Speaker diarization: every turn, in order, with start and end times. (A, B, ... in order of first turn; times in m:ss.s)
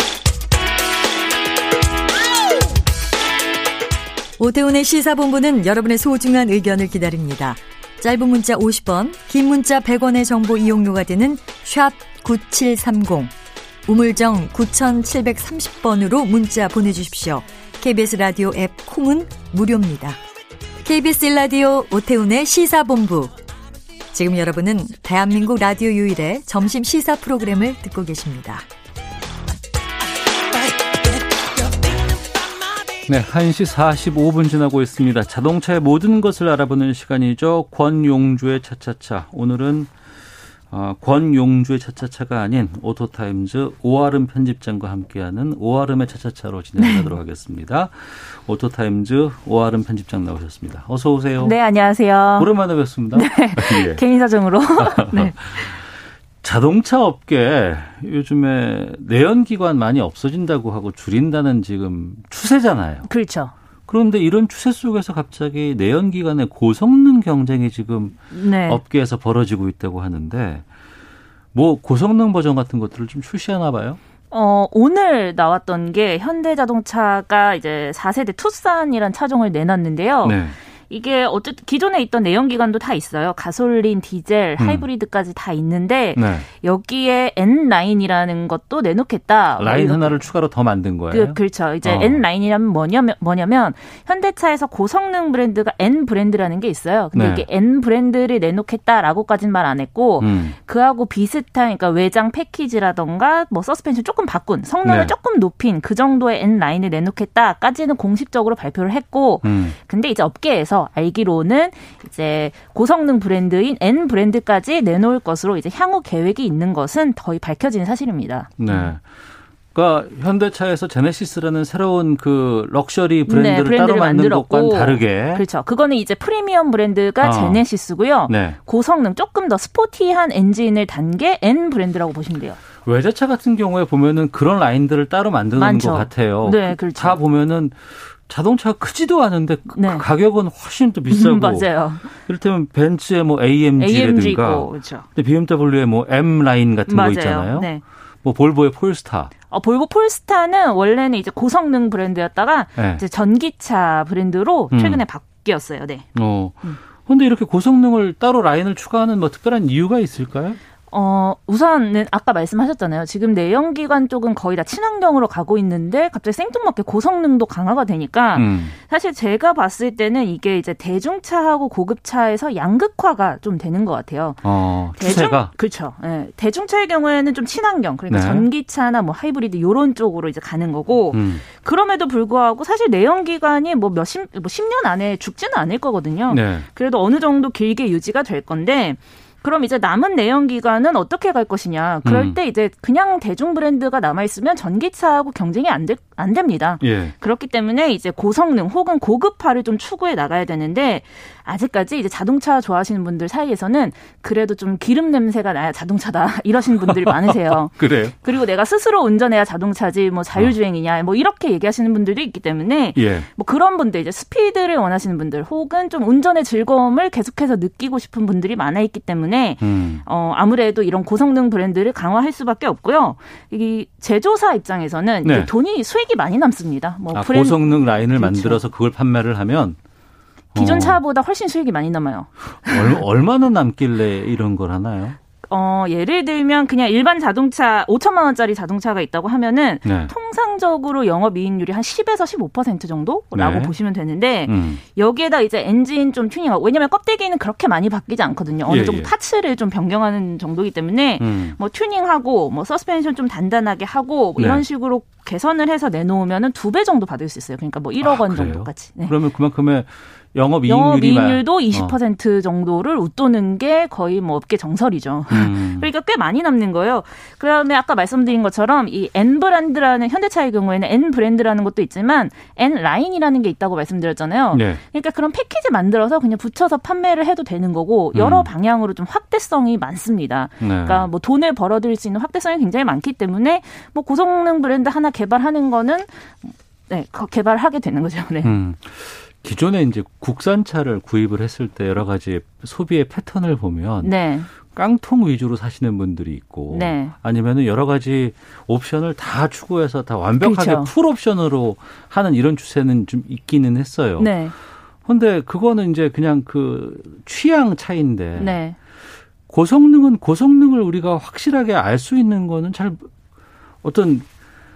0:04.4-0:13.3 A
0:13.9-0:20.2 A
0:20.8-0:23.4 A
0:24.1-0:28.6 A
0:33.0-0:39.9 B
0:40.7-0:51.6 B
0:46.8-0:47.1 C
0:51.4-0:52.5 C
0:52.4-0:54.0 B
0:53.1-0:55.5 C
0:54.8-0:55.8 B
0:56.4-1:03.1 B
1:03.0-1:03.5 C
1:03.9-1:10.6 B
1:08.3-1:08.8 C
1:11.5-1:14.0 B
1:14.3-1:30.2 C
1:20.2-1:20.5 B
1:24.6-1:24.9 B
1:26.2-1:26.5 B
1:29.6-1:32.2 B
1:31.1-1:58.9 C
1:37.1-1:37.4 B
1:40.2-1:40.5 B
1:44.8-1:45.1 B
1:49.4-1:49.7 B
1:58.6-1:59.1 B
1:59.7-2:05.4 B
2:03.3-2:12.6 C
2:07.2-2:07.6 B
2:08.3-2:08.6 B
2:12.8-2:27.7 B
2:15.5-2:17.2 C
2:19.7-2:20.0 C
2:21.1-2:22.1 C
2:23.8-2:25.1 C
2:26.9-2:27.8 C
2:28.2-2:29.3 B
2:29.5-2:36.8 C
2:32.8-2:33.0 B
2:34.7-2:35.0 B
2:36.1-2:40.6 B
2:40.9-3:48.6 C
2:48.3-2:48.7 B
2:54.4-2:55.5 B
2:58.1-2:58.5 B
3:01.1-3:01.4 B
3:06.3-3:06.6 B
3:12.0-3:12.4 B
3:16.8-3:17.1 B
3:26.8-3:28.2 B
3:33.0-3:33.3 B
3:39.6-3:40.0 B
3:45.2-3:45.5 B
3:47.1-3:49.8 B
3:50.5-3:51.0 B
3:50.6-3:53.0 C
3:52.6-3:55.2 B
3:55.4-4:19.1 C
3:59.8-4:00.1 B
4:03.3-4:03.7 B
4:04.5-4:04.8 B
4:08.7-4:09.1 B
4:11.2-4:11.6 B
4:14.4-4:14.6 B
4:18.0-4:22.0 B
4:20.6-4:48.5 C
4:25.3-4:25.9 B
4:34.5-4:34.8 B
4:38.1-4:38.5 B
4:40.6-4:41.1 B
4:48.4-5:04.4 B
4:54.0-4:54.5 C
4:56.7-4:57.1 C
5:00.4-5:00.9 C
5:04.2-5:04.5 C
5:05.0-5:08.6 B
5:08.4-5:08.8 C
5:09.5-5:13.1 B
5:13.8-5:14.2 B